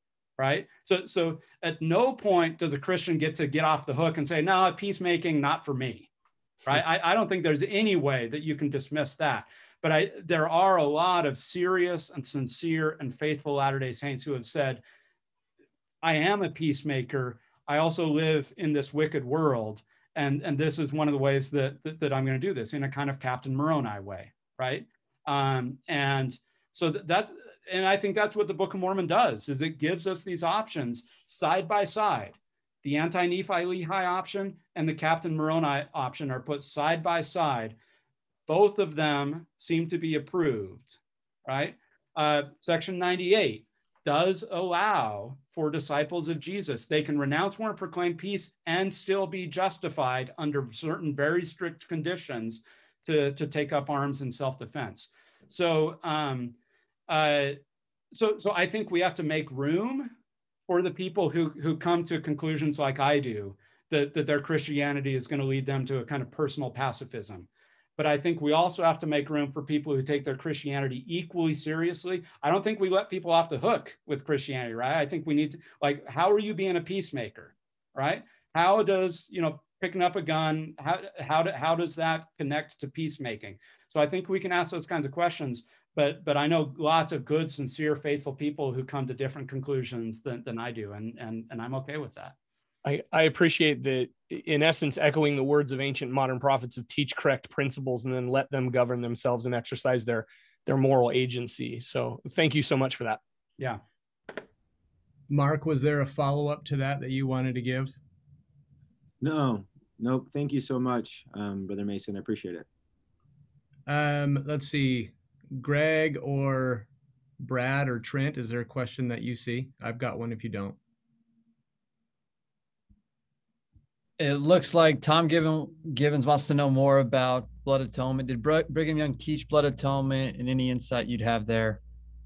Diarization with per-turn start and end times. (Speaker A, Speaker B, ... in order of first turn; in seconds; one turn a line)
Speaker A: 0.4-6.1
Speaker A: 6.7-14.8
Speaker A: 16.0-37.8
Speaker A: 38.5-40.9
Speaker A: 41.5-56.5
Speaker A: 57.1-57.6
Speaker A: 58.1-60.1
Speaker A: 60.7-92.3
Speaker B: 92.8-103.2
Speaker C: 105.3-108.0
Speaker D: 109.2-112.7
Speaker C: 113.9-116.9
Speaker C: 117.4-120.8
Speaker E: 124.2-131.8